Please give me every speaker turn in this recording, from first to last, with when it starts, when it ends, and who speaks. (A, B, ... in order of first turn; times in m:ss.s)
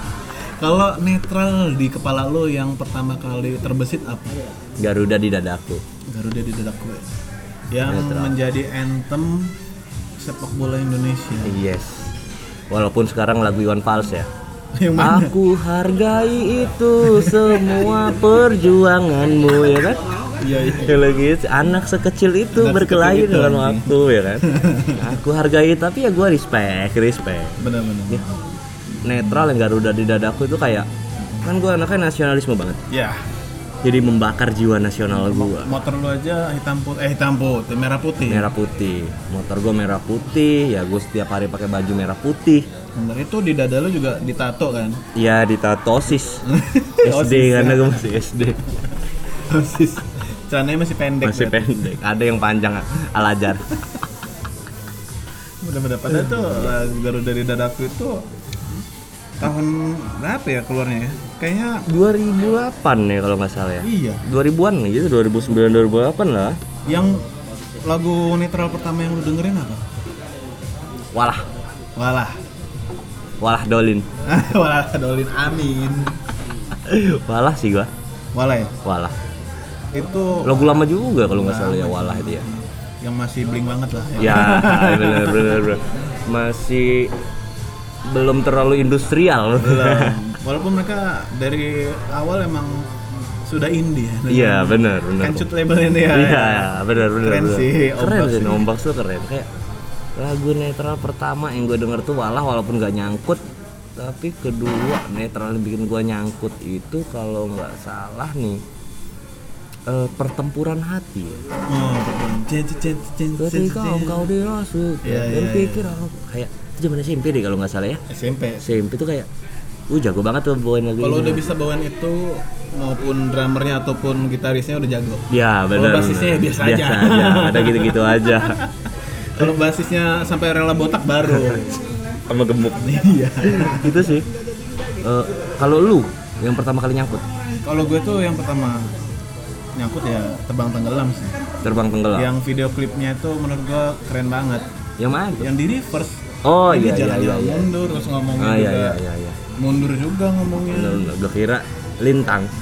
0:00.6-0:04.4 A
0:04.8-0:05.8 B
0:06.1-0:07.1 A
0:07.7-0:09.5 A
0:07.8-0:08.4 B
0:10.2-0:11.6 A
0:11.4-0:12.1 B
0:12.7-0:14.3 B
0:14.7-0:15.4 A
0:15.0-0:20.0 B
0:17.0-0:17.6 A
0:20.4-0:21.0 A
0:20.7-0:28.2 B
0:22.5-0:25.1 A
0:27.6-0:28.2 A
0:29.0-0:30.9 B
0:31.4-0:32.8 B
0:32.9-0:33.2 A
0:33.8-0:35.7 B
0:35.1-0:38.5 A
0:38.3-0:42.6 B
0:43.0-0:45.0 A
0:45.1-0:46.4 B
0:46.4-0:48.2 A
0:47.0-0:48.6 B
0:49.5-0:52.0 A
0:51.2-0:53.6 B
0:55.6-0:58.8 A
0:59.4-1:01.9 A
1:01.9-1:06.6 B
1:03.8-1:04.2 A
1:06.8-1:07.2 A
1:07.8-1:09.8 A
1:11.1-1:11.4 B
1:12.0-1:12.4 A
1:13.4-1:14.1 B
1:14.2-1:16.2 A
1:16.8-1:17.9 B
1:18.3-1:18.7 A
1:18.8-1:19.1 B
1:19.9-1:25.7 A
1:20.4-1:22.5 B
1:24.2-1:27.1 B
1:28.1-1:30.2 B
1:29.6-1:38.7 A
1:34.3-1:35.5 B
1:36.1-1:39.5 B
1:40.2-1:43.4 B
1:44.0-1:48.6 B
1:49.9-1:51.4 B
1:51.7-1:54.3 A
1:53.4-1:58.0 B
1:55.0-1:56.0 A
1:58.1-1:58.7 A
1:58.6-1:59.3 B
1:59.9-2:01.5 B
2:01.0-2:08.7 A
2:05.3-2:08.6 B
2:09.3-2:11.8 A
2:11.3-2:12.9 B
2:12.7-2:14.1 A
2:13.5-2:14.3 B
2:15.0-2:17.2 B
2:17.6-2:18.9 A
2:19.8-2:21.4 A
2:21.6-2:22.3 B
2:22.1-2:24.6 A
2:25.0-2:25.5 B
2:25.4-2:29.0 A
2:26.4-2:27.7 B
2:28.4-2:29.4 B
2:29.6-2:31.1 A
2:30.7-2:32.5 B